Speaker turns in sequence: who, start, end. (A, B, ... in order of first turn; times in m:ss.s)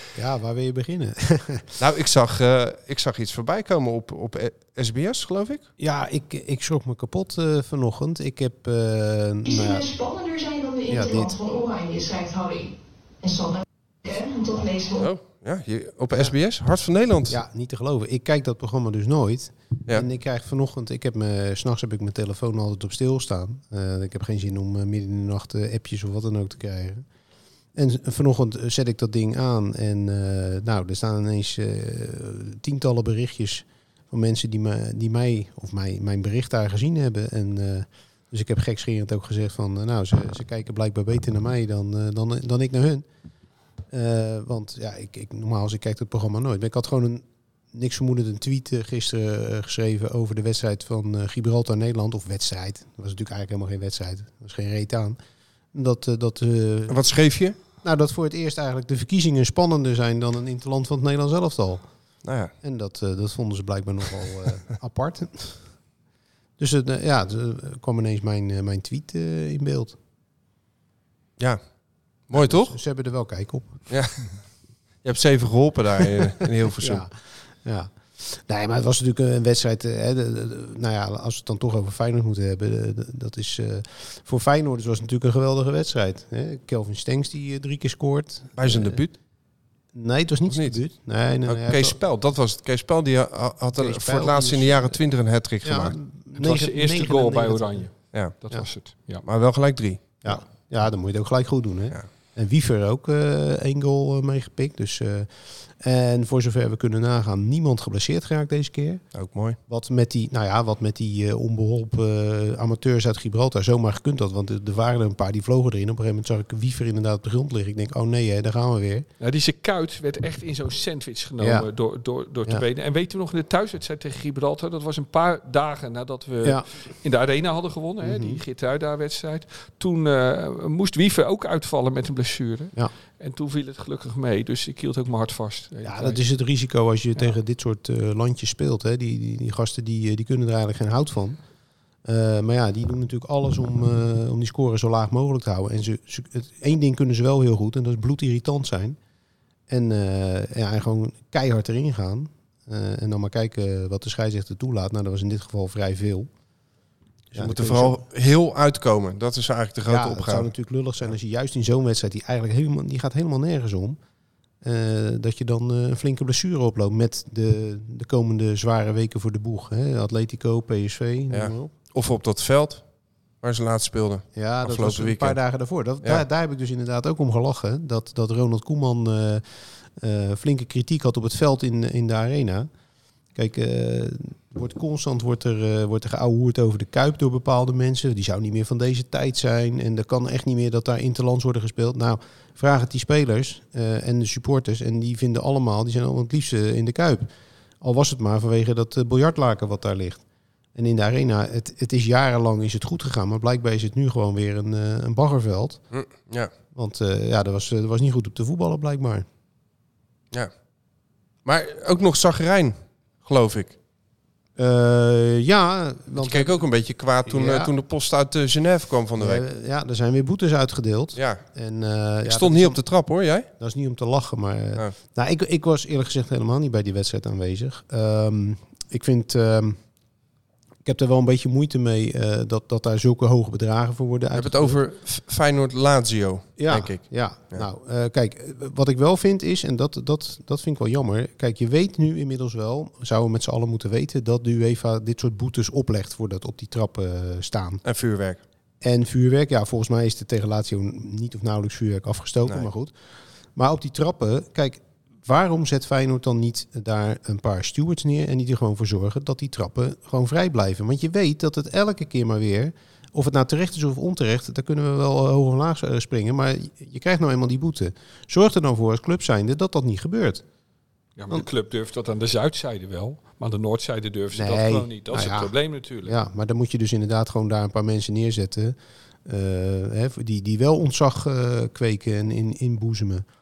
0:00.1-0:01.7 A
0:01.8-0:05.7 B
0:05.8-0:09.9 A
0:09.5-0:15.1 C
0:10.9-0:11.4 A
0:14.9-0:17.4 B
0:17.3-0:27.1 A
0:27.7-0:43.0 A
0:43.9-0:55.2 A
0:55.7-0:57.1 A
0:56.9-0:57.6 B
0:57.8-1:01.9 A
1:02.2-1:02.5 B
1:02.6-1:05.7 A
1:06.6-1:10.0 A
1:11.4-1:11.7 B
1:12.2-1:12.8 B
1:12.3-1:13.9 A
1:13.9-1:14.3 B
1:15.0-1:17.0 B
1:16.8-1:29.0 A
1:28.6-1:29.1 B
1:29.9-1:32.0 A
1:30.5-1:30.8 B
1:31.5-1:35.9 B
1:33.8-1:35.0 A
1:35.6-1:37.9 A
1:36.4-1:39.2 D
1:39.2-1:40.4 B
1:40.2-1:49.0 A
1:49.1-1:49.6 B
1:49.7-1:59.1 A
1:59.2-2:16.2 D
2:01.4-2:01.7 A
2:08.0-2:08.4 A
2:15.8-2:21.4 A
2:22.0-2:29.0 A
2:29.7-2:36.3 A
2:37.3-2:38.0 A
2:37.3-2:40.5 B
2:39.9-2:44.0 A
2:44.6-2:51.7 A
2:51.3-2:52.8 B
2:53.4-2:56.2 B
2:54.3-3:02.7 A
3:03.3-3:17.3 A
3:17.8-3:20.2 A
3:20.7-3:25.8 A
3:25.9-3:26.5 B
3:26.7-3:29.2 A
3:31.4-3:33.8 B
3:34.6-3:36.7 A
3:36.2-3:39.4 B
3:37.2-3:37.7 A
3:39.2-3:42.8 A
3:41.2-3:41.4 B
3:42.2-3:43.5 B
3:43.6-3:49.8 A
3:50.8-3:54.8 A
3:54.3-3:57.6 B
3:56.6-4:07.8 A
4:07.8-4:08.4 B
4:08.8-4:13.0 A
4:13.5-4:30.4 A
4:31.2-4:36.1 D
4:34.3-4:43.3 A